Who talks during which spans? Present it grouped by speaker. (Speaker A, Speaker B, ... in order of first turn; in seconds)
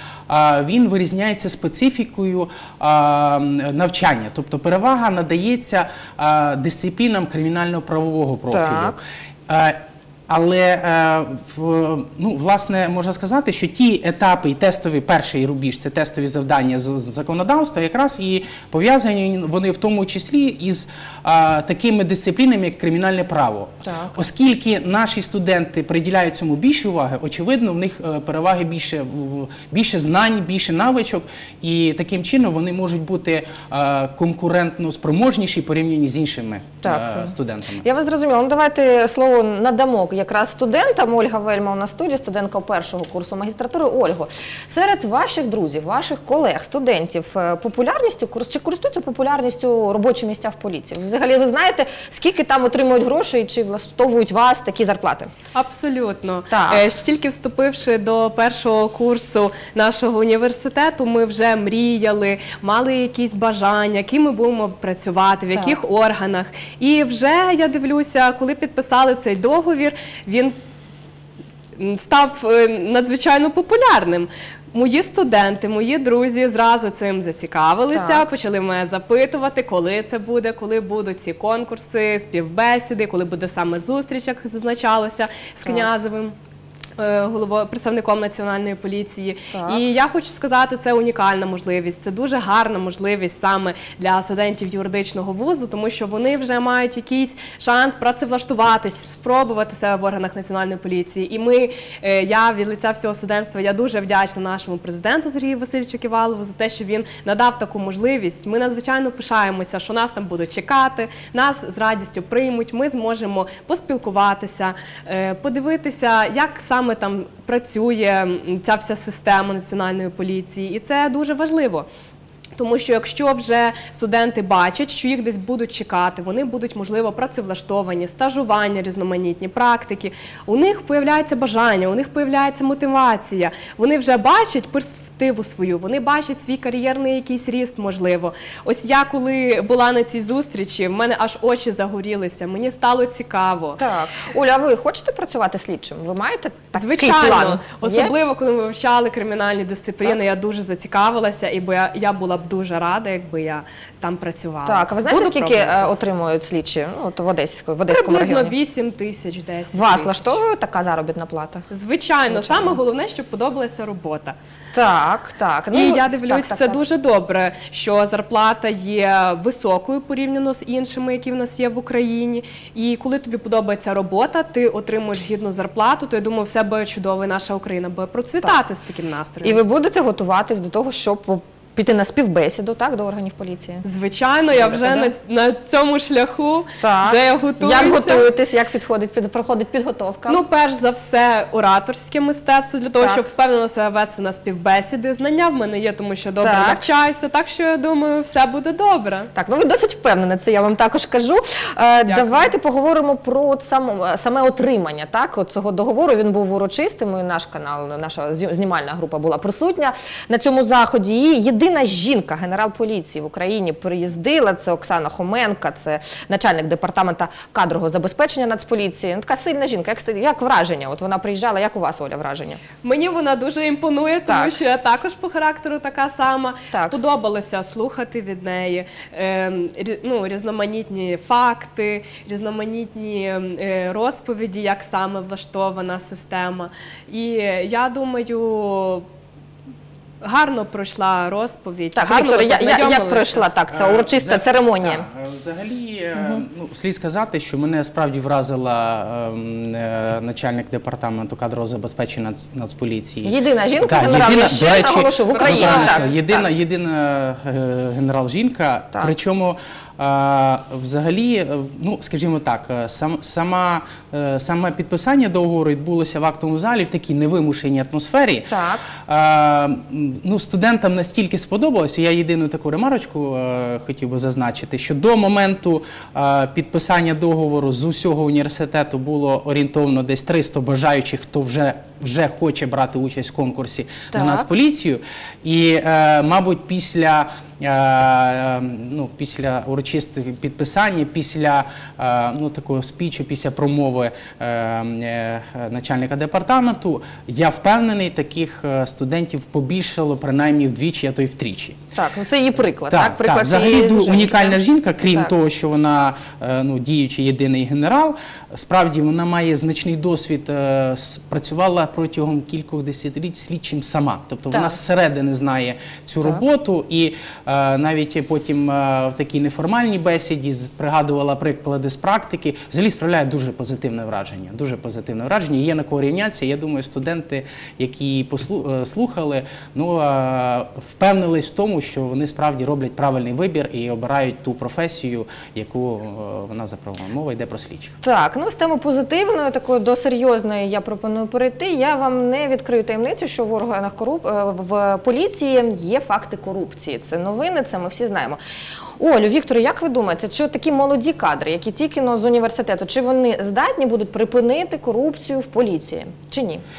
Speaker A: 0.3-37.9, 243.7-268.5, 269.1-301.8, 302.9-338.0
Speaker B: 8.5-9.0, 23.8-24.2, 36.8-55.3, 56.5-56.8, 77.9-78.3, 85.6-85.9, 89.5-89.8, 143.8-148.1, 154.6-158.6, 159.7-161.7, 162.3-162.8, 164.7-166.8, 179.4-183.8, 184.5-185.1, 186.8-190.4, 193.0-193.3, 196.4-196.8, 199.3-222.6, 224.3-224.5, 226.7-227.0, 241.9-245.1, 253.2-256.5, 268.5-268.9, 284.1-284.5, 301.9-305.3, 314.5-314.8, 338.0-348.4, 349.0-356.6
Speaker C: 55.5-70.5, 71.8-86.3, 87.0-121.9, 122.6-143.8, 146.8-155.9, 157.9-160.4, 161.7-164.4, 165.7-179.6, 183.8-188.3, 190.3-199.3, 202.1-202.5, 222.8-239.0, 240.2-243.5, 255.3-256.1